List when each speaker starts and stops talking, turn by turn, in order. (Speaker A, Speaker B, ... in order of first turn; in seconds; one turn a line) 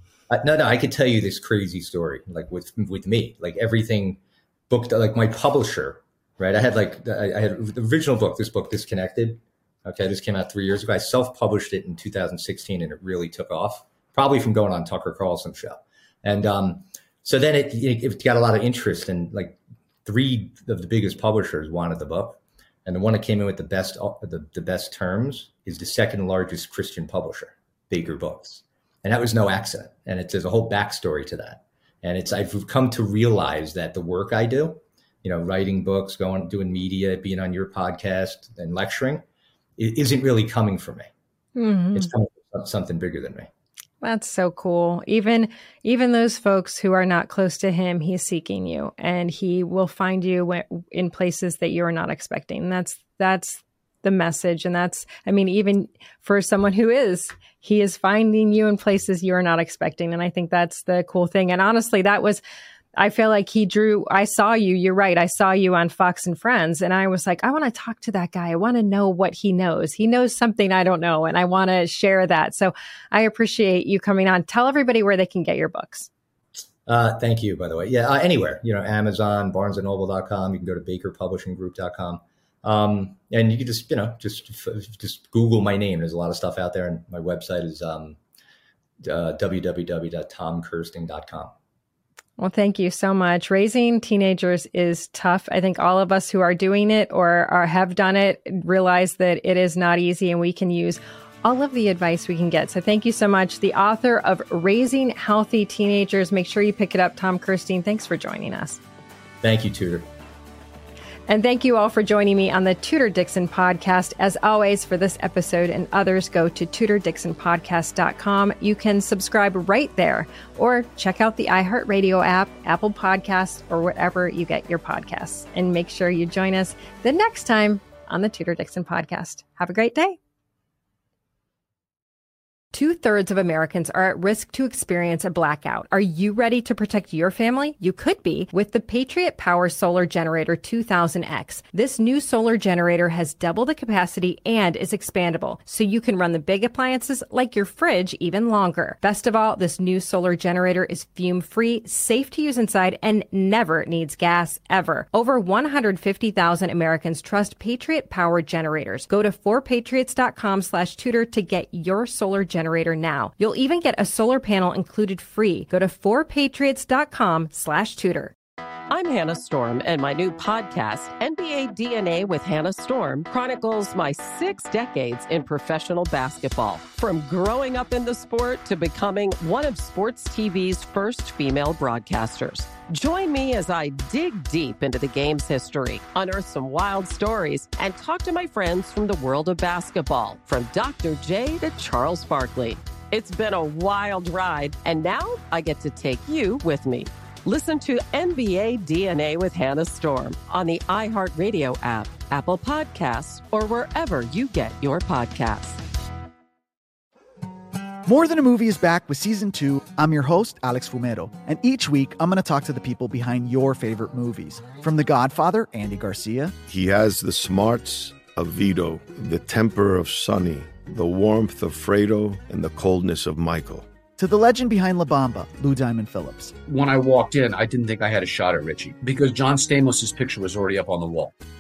Speaker A: 0.3-39.2
Speaker A: 39.8-41.1
Speaker B: 41.6-42.1
Speaker A: 41.9-43.5
Speaker B: 44.0-62.4
Speaker B: 63.0-76.1
Speaker A: 76.9-88.2
Speaker A: 89.0-91.5
Speaker B: 92.4-108.8
Speaker A: 109.4-110.1
Speaker B: 111.3-130.2
Speaker B: 132.7-168.3
Speaker C: 168.9-205.8
Speaker D: 208.1-216.5
Speaker E: 216.7-223.9
Speaker D: 224.2-226.6
Speaker F: 226.7-231.3